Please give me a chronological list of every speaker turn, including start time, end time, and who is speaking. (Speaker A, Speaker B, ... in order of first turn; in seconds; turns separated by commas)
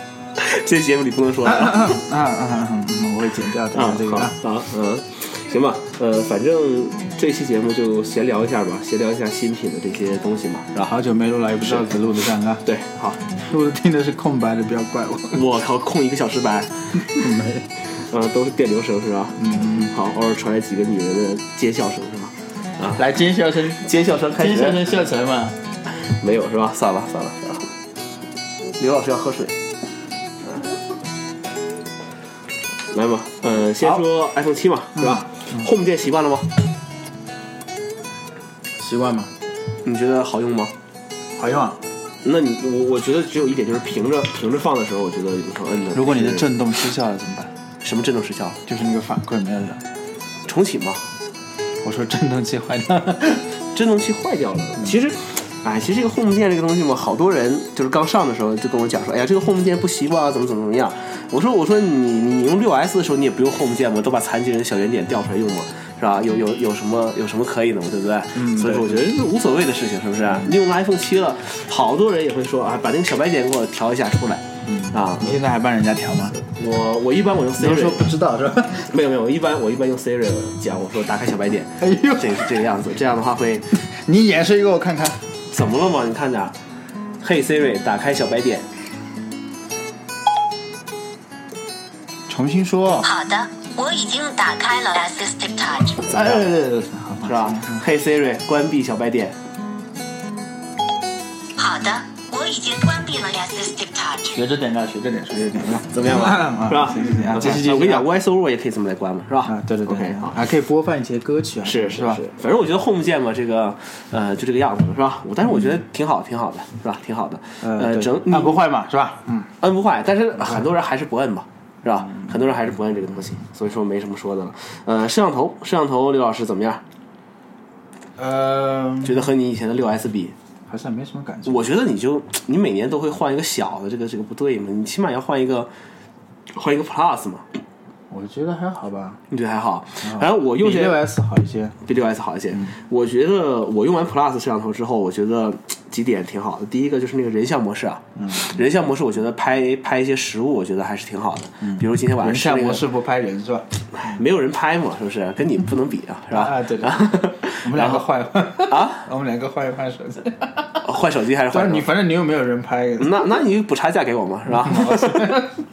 Speaker A: 0.4-2.0, Speaker B: 1.4-4.3, Speaker A: 3.7-10.9, Speaker B: 10.8-12.6, Speaker A: 11.6-12.0, Speaker A: 12.6-13.3, Speaker B: 13.2-15.5, Speaker A: 15.3-17.2, Speaker B: 16.9-17.7, Speaker A: 17.9-23.0, Speaker B: 19.4-19.9, Speaker B: 22.9-25.6, Speaker A: 23.7-24.9, Speaker A: 26.1-27.7, Speaker A: 28.8-29.6, Speaker A: 30.4-30.7, Speaker A: 32.9-36.5, Speaker B: 33.8-34.0, Speaker B: 34.9-35.7, Speaker B: 38.8-39.3, Speaker A: 39.8-40.7, Speaker B: 41.3-41.8, Speaker A: 42.2-46.5, Speaker B: 45.9-47.5, Speaker A: 47.8-48.6, Speaker B: 48.6-49.8, Speaker A: 50.5-51.0, Speaker B: 51.8-53.6, Speaker A: 53.7-75.4, Speaker B: 68.3-69.1, Speaker B: 70.2-70.5, Speaker B: 74.6-76.4, Speaker A: 76.4-78.1, Speaker B: 77.6-78.9, Speaker A: 78.8-83.7, Speaker B: 81.8-82.6, Speaker B: 83.8-85.2, Speaker A: 85.5-86.5, Speaker A: 87.2-88.7, Speaker B: 92.3-93.1, Speaker C: 93.0-96.0, Speaker B: 96.0-97.8, Speaker A: 96.1-96.4, Speaker A: 97.2-99.3, Speaker C: 101.6-104.3, Speaker B: 104.3-108.1, Speaker A: 105.9-110.4, Speaker B: 109.4-112.2, Speaker A: 111.6-118.6, Speaker B: 115.5-115.8, Speaker B: 117.6-119.5, Speaker A: 119.6-126.8, Speaker B: 128.2-129.3, Speaker A: 129.0-130.3, Speaker B: 130.7-131.7, Speaker A: 131.4-135.7, Speaker A: 136.5-137.4, Speaker B: 138.1-139.2, Speaker A: 139.3-141.1, Speaker B: 140.0-141.8, Speaker A: 141.8-152.8, Speaker B: 148.2-148.7, Speaker B: 151.6-153.7, Speaker A: 153.9-159.1, Speaker B: 156.3-160.8, Speaker A: 160.8-161.9, Speaker B: 161.5-163.3, Speaker A: 163.0-165.5, Speaker B: 164.5-165.5